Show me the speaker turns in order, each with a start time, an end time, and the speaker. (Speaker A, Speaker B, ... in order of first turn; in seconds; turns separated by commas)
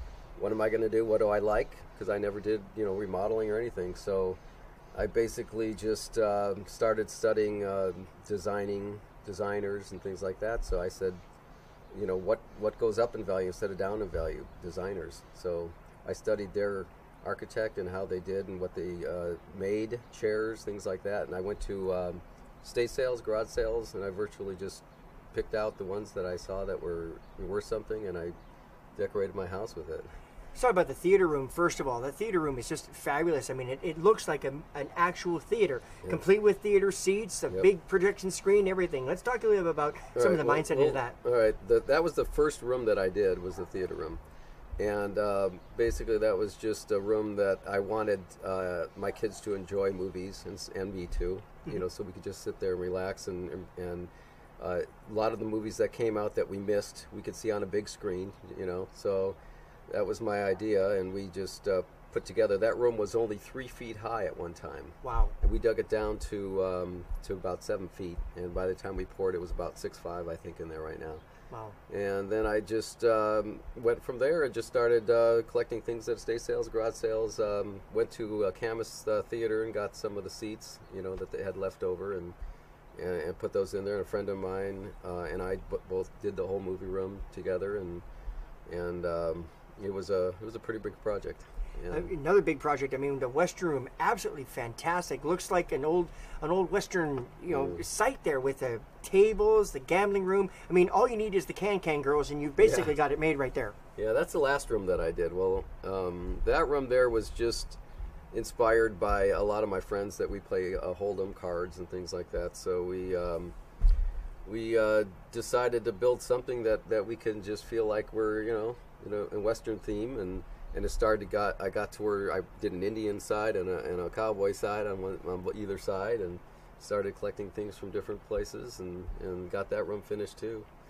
Speaker A: 0.4-4.4, Speaker A: 4.9-11.2, Speaker A: 11.9-28.4, Speaker A: 28.9-30.1, Speaker B: 30.5-41.1, Speaker A: 40.1-44.2, Speaker A: 44.8-59.4, Speaker A: 59.9-71.2, Speaker B: 65.0-65.3, Speaker B: 71.5-71.8, Speaker A: 71.9-82.3, Speaker A: 83.0-88.0, Speaker A: 88.7-92.1, Speaker B: 91.9-103.7, Speaker A: 97.5-97.8, Speaker A: 102.6-103.0, Speaker A: 104.0-107.8, Speaker A: 108.3-113.5, Speaker A: 114.5-130.7